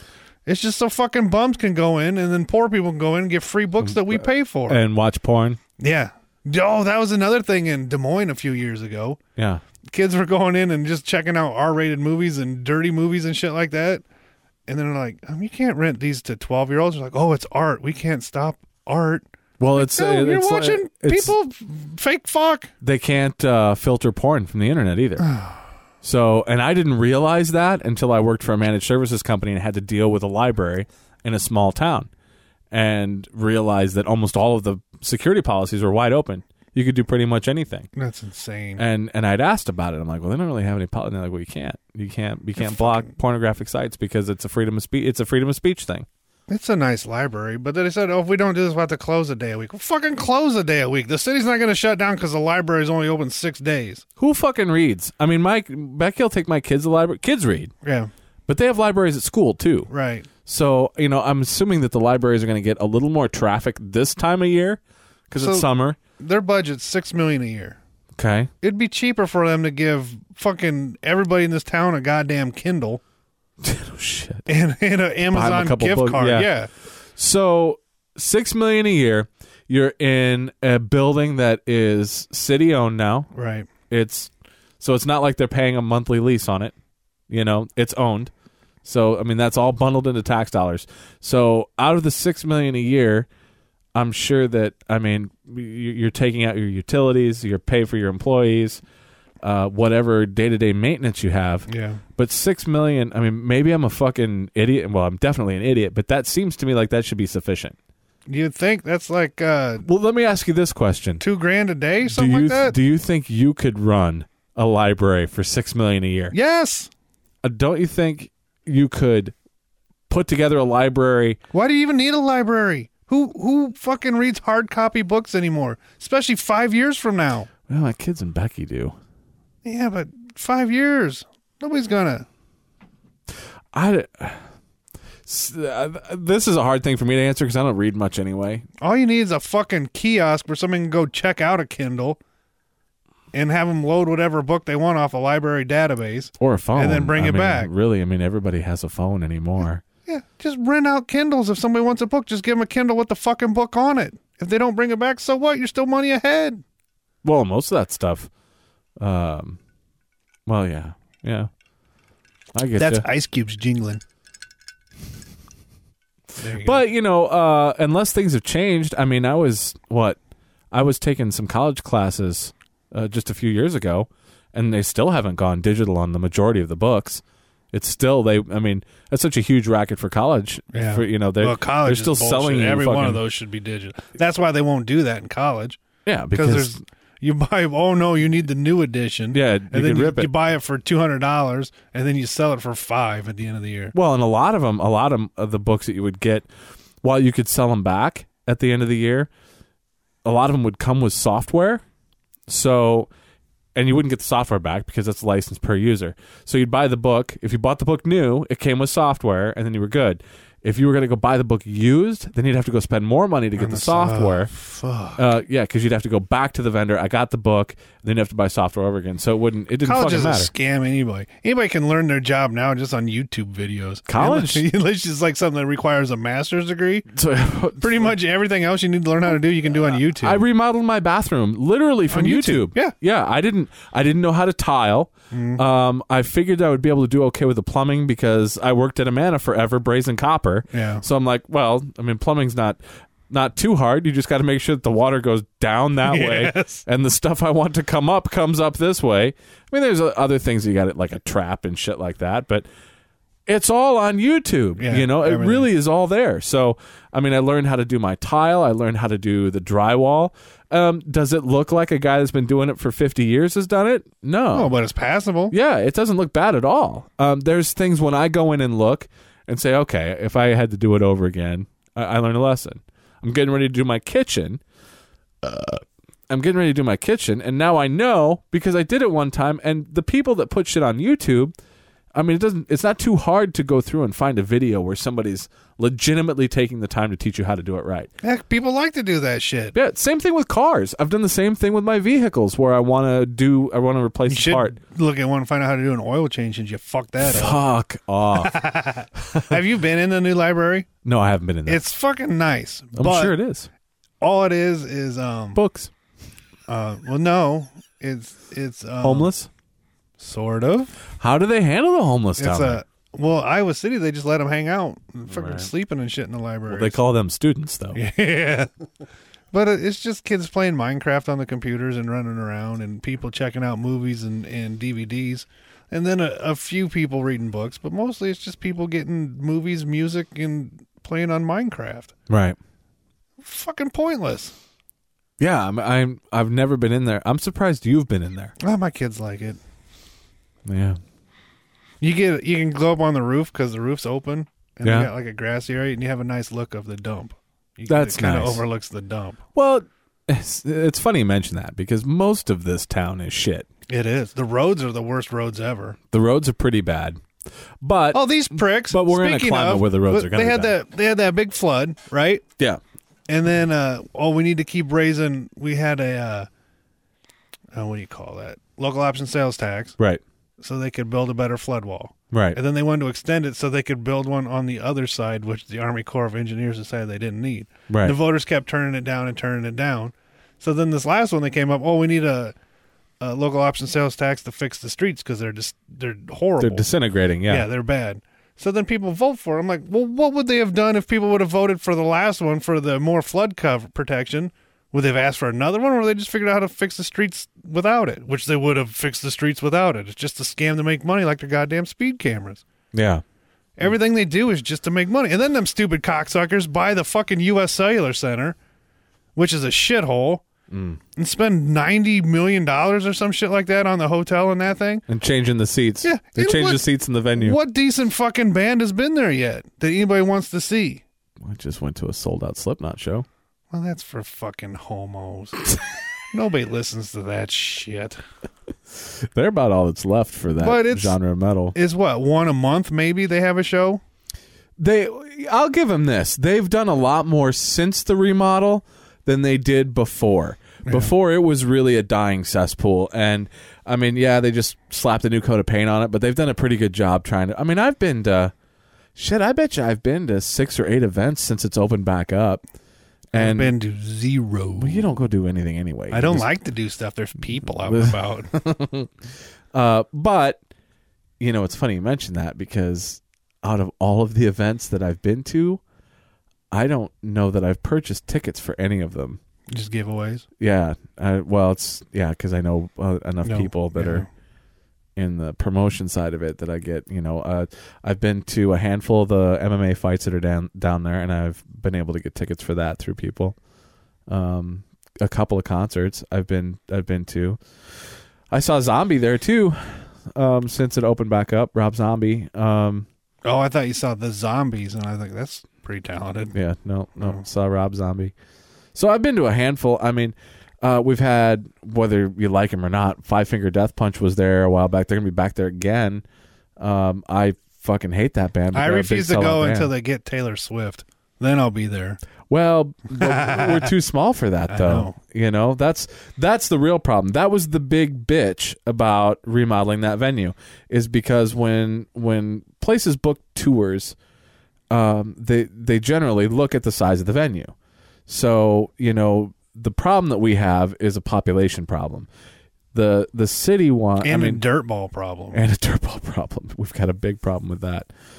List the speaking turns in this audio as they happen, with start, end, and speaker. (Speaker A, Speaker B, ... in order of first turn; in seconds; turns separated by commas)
Speaker A: 0.5-4.8, Speaker B: 3.8-5.6, Speaker A: 5.8-9.2, Speaker B: 9.4-9.6, Speaker A: 9.9-14.0, Speaker A: 14.7-22.7, Speaker B: 19.6-21.3, Speaker B: 22.8-25.3, Speaker A: 25.2-25.6, Speaker B: 26.0-32.1, Speaker B: 32.7-37.9, Speaker A: 38.0-38.8, Speaker B: 38.8-46.1, Speaker A: 42.6-43.1, Speaker A: 46.5-54.0, Speaker B: 54.2-57.7, Speaker A: 57.8-58.1, Speaker B: 58.5-59.9, Speaker A: 59.9-60.3, Speaker B: 60.5-66.0, Speaker A: 65.4-65.7, Speaker A: 66.2-67.8, Speaker B: 68.2-68.5, Speaker A: 68.6-73.0, Speaker B: 73.6-74.5, Speaker A: 74.5-76.7, Speaker B: 75.3-76.5, Speaker B: 77.2-83.3, Speaker A: 83.3-83.7, Speaker B: 83.9-86.7, Speaker B: 87.3-88.3, Speaker B: 88.8-93.3, Speaker B: 94.0-98.8, Speaker B: 99.4-107.8, Speaker A: 101.7-102.0, Speaker A: 108.3-109.8, Speaker B: 109.8-111.2, Speaker A: 111.2-112.8, Speaker B: 112.0-116.3, Speaker A: 116.3-116.9, Speaker B: 117.4-119.3, Speaker B: 120.1-121.4, Speaker A: 121.5-127.5, Speaker B: 127.7-128.9, Speaker A: 129.6-132.3, Speaker B: 133.7-134.4, Speaker B: 135.3-138.7, Speaker A: 138.8-142.2, Speaker A: 143.3-147.7, Speaker B: 146.4-149.8, Speaker A: 150.1-156.6, Speaker B: 157.2-158.3, Speaker B: 159.0-159.6, Speaker B: 160.5-161.5, Speaker B: 162.5-163.1, Speaker A: 162.8-164.0, Speaker A: 166.4-166.8, Speaker B: 166.6-170.2, Speaker B: 170.7-183.2, Speaker A: 180.7-185.8, Speaker B: 186.1-186.8, Speaker A: 186.3-193.9, Speaker B: 189.3-190.3, Speaker B: 193.9-196.5, Speaker B: 197.0-199.3, Speaker B: 200.2-201.8, Speaker B: 202.5-203.1, Speaker B: 203.8-214.5, Speaker A: 213.6-215.2, Speaker B: 215.2-220.5, Speaker A: 219.8-227.1, Speaker B: 224.1-224.7, Speaker B: 227.1-228.2, Speaker A: 227.8-230.4, Speaker B: 229.8-252.7, Speaker A: 232.1-232.9, Speaker A: 235.3-235.6, Speaker A: 240.7-241.0, Speaker A: 246.1-246.8, Speaker B: 253.5-264.7, Speaker A: 254.8-255.7, Speaker A: 264.5-265.5, Speaker B: 265.5-274.6, Speaker B: 275.4-281.6, Speaker B: 282.1-288.1, Speaker A: 288.2-289.8, Speaker B: 289.8-294.8, Speaker A: 294.3-297.6, Speaker B: 297.2-298.6, Speaker A: 298.4-300.9, Speaker B: 299.2-299.6, Speaker B: 301.0-301.8, Speaker A: 301.7-303.4, Speaker B: 303.0-303.7, Speaker A: 304.2-305.6, Speaker B: 305.6-305.9, Speaker A: 306.7-309.3, Speaker B: 309.0-309.5, Speaker A: 310.2-311.0, Speaker B: 311.2-312.8, Speaker A: 312.4-317.0, Speaker B: 315.3-315.7, Speaker B: 316.7-318.0, Speaker A: 317.9-318.7, Speaker A: 319.5-332.1, Speaker B: 332.3-332.6, Speaker A: 333.4-334.5, Speaker B: 335.4-338.6, Speaker A: 338.6-339.6, Speaker B: 340.7-341.0, Speaker A: 342.0-349.4, Speaker B: 344.8-345.1, Speaker B: 347.9-348.6, Speaker B: 349.6-353.7, Speaker A: 353.9-356.0, Speaker B: 356.1-357.2, Speaker B: 357.8-360.7, Speaker A: 358.1-362.4, Speaker A: 363.3-366.5, Speaker A: 367.8-370.0, Speaker A: 370.6-382.5, Speaker B: 372.3-372.6, Speaker B: 377.9-378.2, Speaker A: 383.2-386.9, Speaker B: 386.6-387.7, Speaker A: 387.5-402.6, Speaker B: 402.9-403.2, Speaker A: 403.8-408.6, Speaker A: 409.4-410.4, Speaker B: 410.7-411.0, Speaker A: 411.2-415.0, Speaker B: 415.1-417.6, Speaker A: 416.0-416.8, Speaker A: 417.4-421.0, Speaker B: 421.4-423.3, Speaker A: 423.7-425.7, Speaker A: 426.3-428.2, Speaker B: 429.3-431.8, Speaker A: 430.6-431.2, Speaker A: 431.7-434.0, Speaker B: 434.8-448.5, Speaker A: 440.9-441.1, Speaker B: 449.2-452.6, Speaker B: 453.3-453.7, Speaker A: 453.3-455.1, Speaker B: 454.8-456.5, Speaker A: 456.1-458.5, Speaker B: 457.9-459.1, Speaker B: 459.7-460.6, Speaker B: 461.4-465.8, Speaker B: 466.7-469.4, Speaker A: 469.7-470.4, Speaker B: 470.6-474.3, Speaker A: 473.4-474.3, Speaker B: 475.2-483.6, Speaker B: 484.3-487.6, Speaker B: 488.5-493.1, Speaker A: 493.4-496.6, Speaker B: 496.5-498.3, Speaker B: 498.9-506.2, Speaker B: 506.8-509.9, Speaker A: 508.7-512.2, Speaker B: 512.5-524.2, Speaker A: 513.2-513.9, Speaker A: 514.7-515.1, Speaker B: 524.9-527.7, Speaker B: 528.3-532.3, Speaker B: 532.9-534.6, Speaker A: 534.2-535.6, Speaker B: 535.5-538.1